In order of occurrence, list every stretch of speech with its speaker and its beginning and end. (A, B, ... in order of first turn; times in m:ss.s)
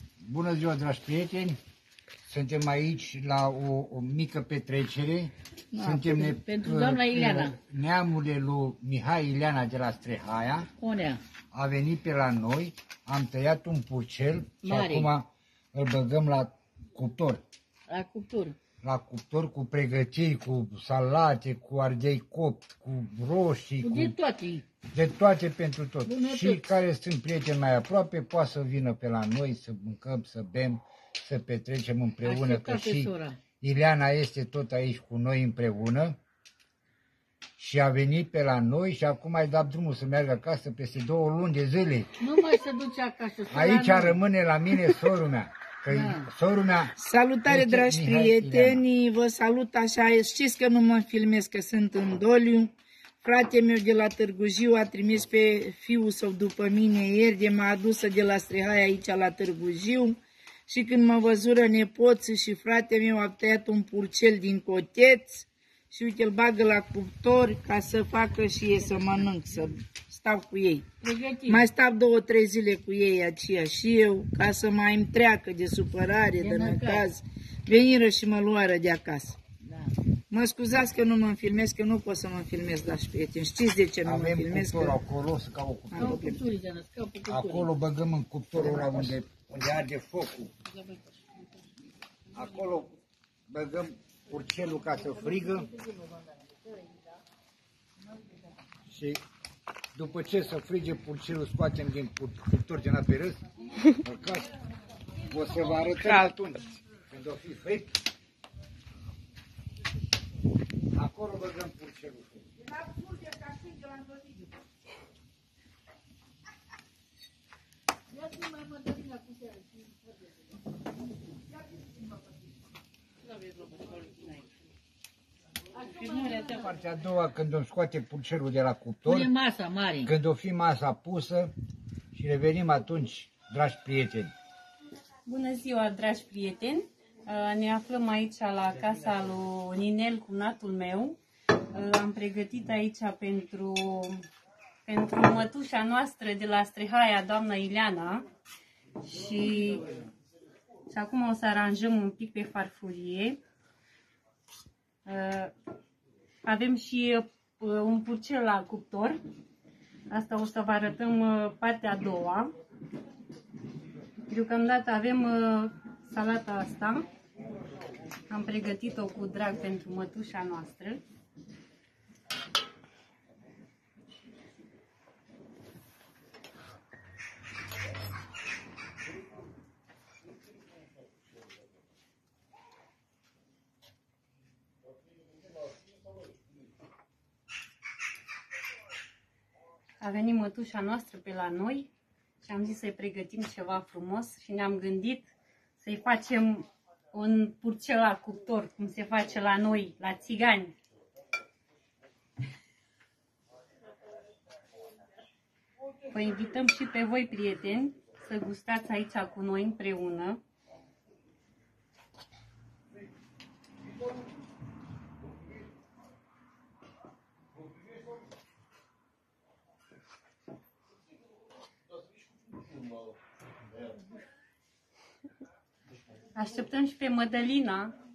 0:00.2-0:01.6 A
0:02.3-0:10.7 A
0:05.7-0:07.6 B
0:10.8-0:11.2 B
0:11.5-0:17.4 A
0:14.6-0:15.1 B
0:17.9-0:18.6 B
0:18.8-0:24.1 A
0:23.8-0:24.6 B
0:24.9-0:36.2 A
0:26.0-0:26.7 B
0:32.2-0:33.4 B
0:37.6-0:42.2 A
0:42.2-0:44.2 B
0:43.5-0:46.9 A
0:45.9-0:46.3 B
0:47.0-1:10.9 C
0:47.5-0:48.8 A
1:11.0-1:11.7 B
1:11.5-1:19.4 C
1:16.4-1:17.1 B
1:19.6-1:20.0 B
1:20.3-1:25.0 C
1:24.0-1:26.1 A
1:25.9-1:26.4 C
1:26.0-1:27.7 B
1:27.3-1:30.5 A
1:28.6-1:29.2 B
1:30.7-1:31.4 B
1:32.3-1:32.9 A
1:33.5-1:35.7 A
1:38.9-1:39.2 A
1:40.0-1:44.5 A
1:45.3-1:48.0 A
1:50.9-1:52.5 A
2:06.2-2:09.3 A
2:09.1-2:10.1 B
2:10.0-2:11.5 A
2:12.1-2:14.3 A
2:15.3-2:21.2 D
2:21.7-2:24.3 D
2:24.9-2:28.2 D
2:29.0-2:29.9 D
2:30.9-2:33.4 D
2:35.0-2:35.5 D
2:36.4-2:39.2 D
2:40.1-2:42.5 D
2:44.3-2:47.1 D
2:48.3-2:51.0 D
3:10.0-3:11.9 D
3:12.4-3:20.7 D
3:26.1-3:30.4 D
3:46.4-3:48.0 D